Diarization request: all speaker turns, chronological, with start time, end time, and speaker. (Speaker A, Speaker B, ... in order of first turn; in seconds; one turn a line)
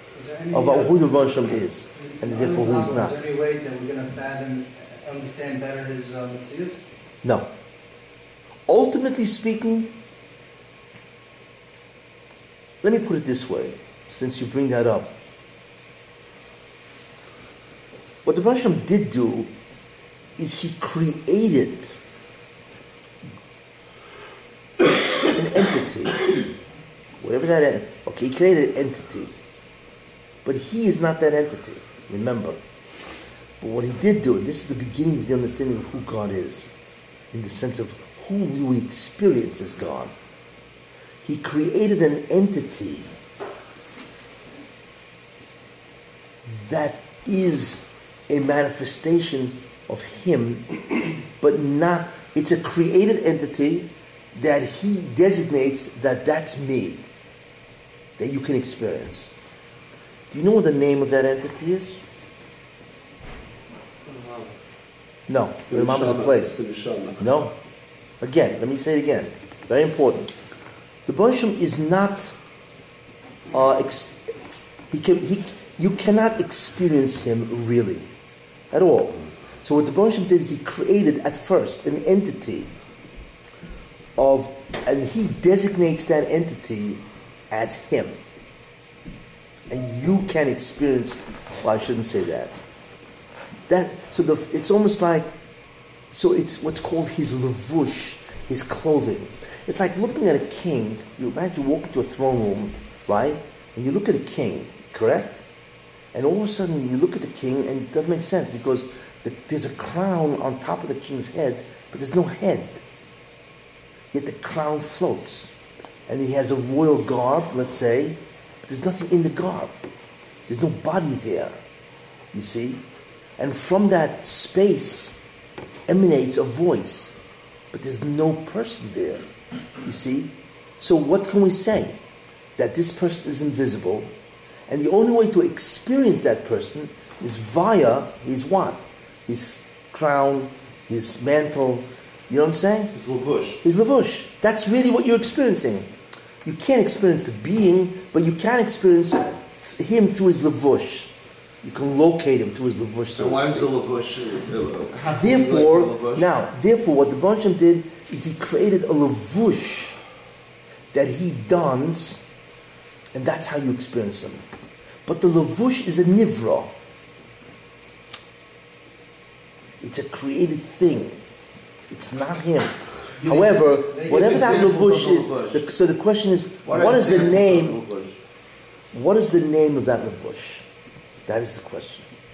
Speaker A: 0.1-6.8
Speaker B: 0.5-3.2
Speaker B: 7.2-7.5
Speaker B: 8.7-10.0
Speaker B: 12.8-15.2
Speaker B: 18.2-19.5
Speaker B: 20.4-22.0
Speaker B: 25.2-26.4
Speaker B: 27.2-29.3
Speaker B: 30.4-32.6
Speaker B: 33.6-36.7
Speaker B: 37.3-40.1
Speaker B: 41.2-43.1
Speaker B: 46.5-50.7
Speaker B: 51.4-57.0
Speaker B: 58.2-59.3
Speaker B: 60.3-62.0
Speaker C: 64.0-64.5
Speaker B: 65.3-66.6
Speaker C: 65.7-67.4
Speaker B: 67.2-67.6
Speaker B: 68.2-70.3
Speaker B: 71.1-72.4
Speaker B: 73.5-74.3
Speaker B: 74.9-78.1
Speaker B: 78.7-82.7
Speaker B: 84.2-88.2
Speaker B: 89.7-92.5
Speaker B: 93.7-95.3
Speaker B: 96.1-105.4
Speaker B: 106.1-112.8
Speaker B: 114.1-115.5
Speaker B: 116.1-119.7
Speaker B: 120.5-121.6
Speaker B: 122.3-122.8
Speaker B: 123.4-125.2
Speaker B: 125.9-127.2
Speaker B: 127.7-129.2
Speaker B: 129.8-132.0
Speaker B: 132.6-134.1
Speaker B: 134.7-142.9
Speaker C: 142.9-143.6
Speaker B: 143.6-145.9
Speaker B: 146.4-151.1
Speaker B: 151.6-153.7
Speaker C: 153.2-156.3
Speaker B: 155.2-160.0
Speaker B: 160.9-162.2
Speaker B: 163.1-164.4
Speaker B: 165.1-166.7
Speaker B: 169.8-171.2
Speaker B: 171.9-177.8
Speaker C: 173.2-175.7
Speaker A: 173.9-174.3
Speaker C: 176.7-178.2
Speaker B: 178.9-180.7
Speaker B: 181.3-182.1